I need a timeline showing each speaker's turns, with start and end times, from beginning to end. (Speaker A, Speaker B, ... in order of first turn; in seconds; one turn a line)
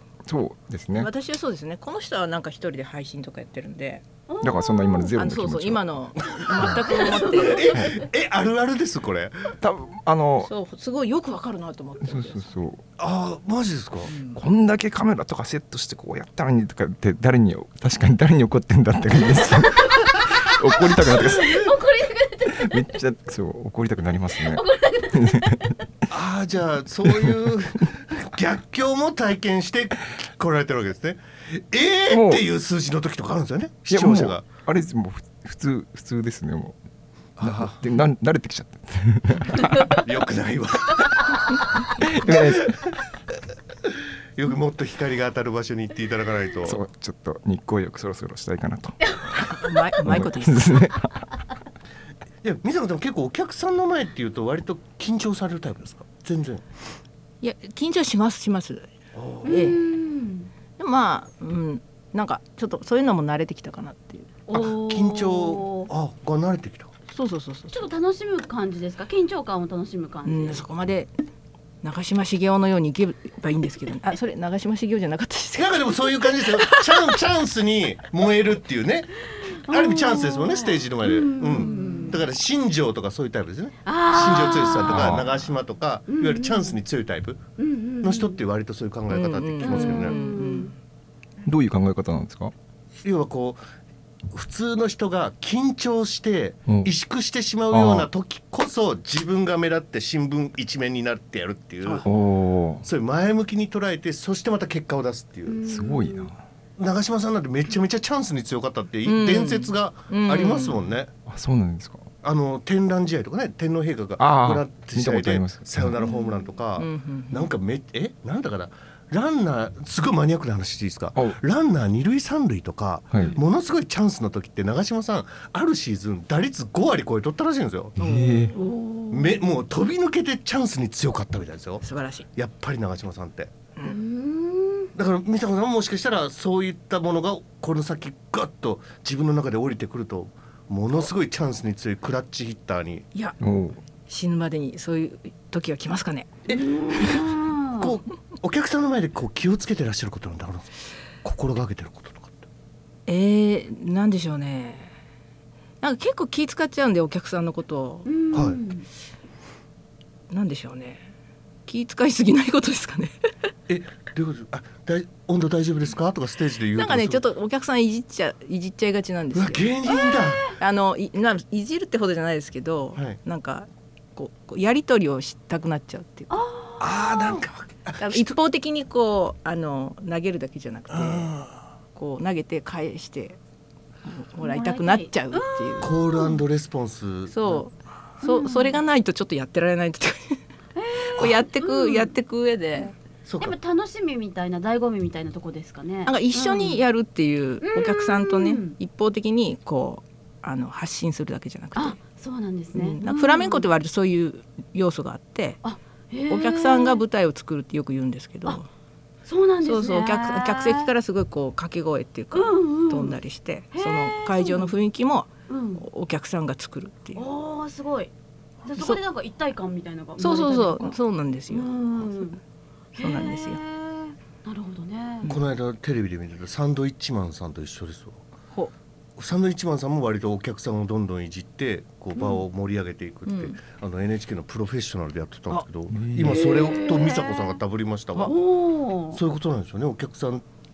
Speaker A: 0.3-1.1
Speaker B: 0.9-4.0
Speaker C: 4.3-5.2
Speaker A: 4.4-5.9
Speaker B: 5.2-7.8
Speaker D: 6.4-9.6
Speaker C: 6.7-8.0
Speaker A: 9.6-10.5
Speaker B: 10.4-12.5
Speaker A: 12.0-12.8
Speaker D: 13.0-14.1
Speaker B: 14.1-14.4
Speaker A: 14.3-21.7
Speaker C: 19.5-22.9
Speaker A: 22.5-25.7
Speaker C: 24.4-25.8
Speaker D: 26.1-34.5
Speaker A: 27.1-27.4
Speaker A: 32.1-32.4
Speaker A: 33.9-36.8
Speaker D: 37.4-37.9
Speaker A: 37.4-40.0
Speaker D: 40.0-41.4
Speaker A: 42.0-42.8
Speaker D: 42.2-42.9
Speaker D: 43.9-46.8
Speaker A: 46.6-49.1
Speaker B: 49.4-50.8
Speaker A: 50.0-51.3
Speaker D: 52.4-56.6
Speaker B: 57.4-58.9
Speaker D: 59.1-59.7
Speaker B: 59.4-59.8
Speaker C: 59.5-60.5
Speaker B: 60.8-64.3
Speaker C: 64.5-65.9
Speaker D: 64.5-66.9
Speaker B: 67.1-67.9
Speaker C: 67.7-70.7
Speaker B: 70.2-71.1
Speaker B: 71.8-77.1
Speaker D: 75.5-79.1
Speaker C: 79.6-82.2
Speaker D: 79.7-87.4
Speaker B: 81.6-82.2
Speaker C: 83.8-85.2
Speaker A: 84.9-85.3
Speaker C: 86.1-86.8
Speaker C: 87.6-88.4
Speaker D: 88.0-90.2
Speaker B: 89.1-90.8
Speaker C: 89.6-90.7
Speaker A: 91.5-92.5
Speaker D: 93.0-93.6
Speaker D: 94.3-102.1
Speaker A: 97.7-98.1
Speaker A: 102.0-102.8
Speaker D: 102.8-105.6
Speaker C: 105.5-106.3
Speaker A: 105.7-106.4
Speaker D: 106.8-111.1
Speaker B: 109.0-110.8
Speaker A: 111.3-112.1
Speaker D: 112.2-128.0
Speaker A: 114.2-116.0
Speaker C: 116.0-116.5
Speaker B: 116.8-117.5
Speaker A: 128.0-128.5
Speaker B: 128.0-128.6
Speaker C: 128.6-129.4
Speaker D: 129.1-133.6
Speaker B: 131.8-132.3
Speaker C: 133.8-134.9
Speaker D: 134.9-143.1
Speaker A: 143.4-143.8
Speaker B: 144.1-146.3
Speaker D: 146.5-147.2
Speaker C: 146.5-148.0
Speaker D: 147.8-150.7
Speaker D: 151.2-152.5
Speaker B: 153.1-154.9
Speaker B: 155.8-158.1
Speaker C: 158.1-158.9
Speaker D: 158.3-158.6
Speaker B: 160.3-161.1
Speaker B: 161.7-163.2
Speaker D: 163.7-167.2
Speaker B: 166.8-169.7
Speaker D: 169.3-170.5
Speaker C: 169.9-170.5
Speaker B: 170.6-176.4
Speaker C: 176.3-177.4
Speaker D: 176.8-178.3
Speaker B: 178.0-181.3
Speaker D: 180.9-181.7
Speaker B: 181.9-183.4
Speaker B: 184.1-185.9
Speaker C: 184.4-186.4
Speaker D: 185.8-187.6
Speaker B: 187.3-190.4
Speaker C: 188.2-188.8
Speaker C: 190.8-192.1
Speaker B: 191.1-192.9
Speaker D: 193.3-193.6
Speaker C: 193.4-196.8
Speaker B: 196.1-202.0
Speaker C: 197.6-198.8
Speaker C: 201.8-203.7
Speaker B: 202.7-205.6
Speaker C: 205.6-207.0
Speaker B: 206.3-208.7
Speaker C: 209.3-210.9
Speaker B: 209.6-217.2
Speaker C: 212.3-213.2
Speaker C: 213.8-214.8
Speaker C: 215.5-215.8
Speaker C: 217.2-218.1
Speaker C: 218.7-221.0
Speaker B: 220.2-222.1
Speaker C: 221.5-222.4
Speaker C: 223.0-225.3
Speaker B: 223.0-223.6
Speaker D: 225.3-228.2
Speaker D: 229.2-238.3
Speaker C: 232.2-232.4
Speaker B: 233.3-233.6
Speaker A: 235.9-236.4
Speaker C: 236.2-237.6
Speaker C: 238.2-239.2
Speaker D: 239.1-240.4